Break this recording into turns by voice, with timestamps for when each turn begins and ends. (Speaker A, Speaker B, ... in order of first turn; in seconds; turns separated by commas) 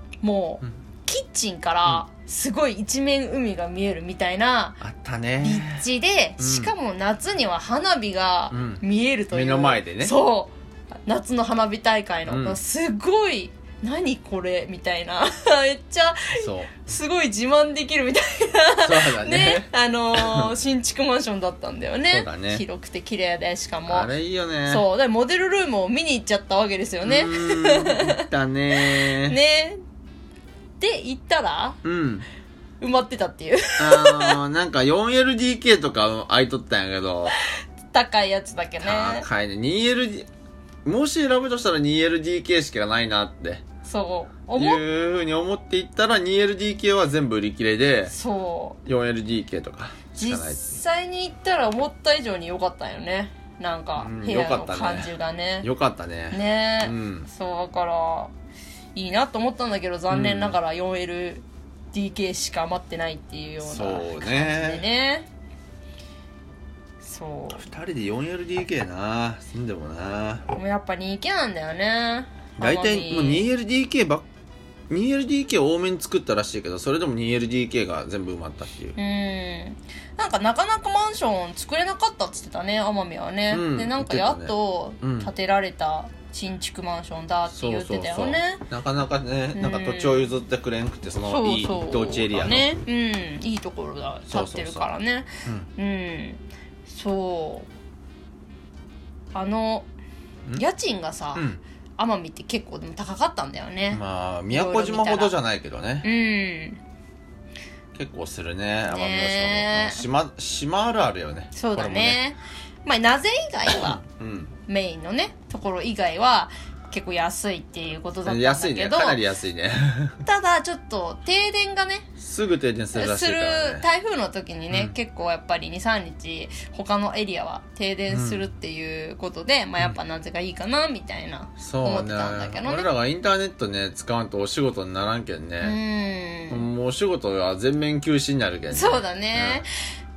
Speaker A: 0.2-4.8, Speaker B: 4.8-5.8, Speaker A: 5.4-10.5, Speaker B: 6.4-6.7, Speaker B: 8.5-10.2, Speaker A: 11.1-24.1, Speaker B: 12.3-12.6, Speaker B: 16.3-16.9, Speaker B: 18.8-20.5, Speaker B: 22.1-22.6, Speaker B: 23.9-24.9, Speaker A: 24.6-28.2, Speaker B: 27.0-29.4, Speaker A: 28.7-29.8, Speaker A: 30.8-31.8, Speaker B: 31.8-32.2, Speaker A: 32.8-34.4, Speaker B: 33.8-37.4, Speaker A: 37.9-39.3, Speaker B: 38.8-40.3, Speaker B: 40.8-43.6, Speaker A: 43.8-44.8, Speaker B: 44.6-48.1, Speaker A: 48.1-48.8, Speaker B: 48.8-50.8, Speaker A: 50.2-55.7, Speaker B: 54.0-55.1, Speaker B: 55.6-57.3, Speaker A: 56.3-58.3, Speaker A: 58.9-65.3, Speaker B: 60.1-60.6, Speaker B: 63.6-64.8, Speaker A: 67.0-67.6, Speaker B: 67.5-70.4, Speaker A: 70.5-73.5, Speaker B: 72.6-74.3, Speaker B: 74.9-79.0, Speaker A: 79.0-88.6, Speaker B: 83.5-85.3, Speaker B: 87.5-92.7, Speaker A: 89.5-90.3, Speaker A: 91.2-97.7, Speaker B: 94.3-94.9, Speaker A: 99.3-99.9, Speaker A: 100.5-105.3, Speaker B: 101.3-101.6, Speaker B: 103.9-106.1, Speaker A: 106.0-106.8, Speaker B: 107.9-112.2, Speaker A: 108.9-110.0, Speaker A: 111.5-114.0, Speaker B: 113.7-114.5, Speaker A: 114.7-119.2, Speaker B: 118.2-120.2, Speaker A: 120.2-122.1, Speaker B: 122.2-123.8, Speaker A: 122.9-132.9, Speaker B: 124.7-124.9, Speaker B: 128.1-128.4, Speaker B: 131.6-135.8, Speaker A: 135.6-136.6, Speaker B: 136.5-139.7, Speaker A: 138.7-139.7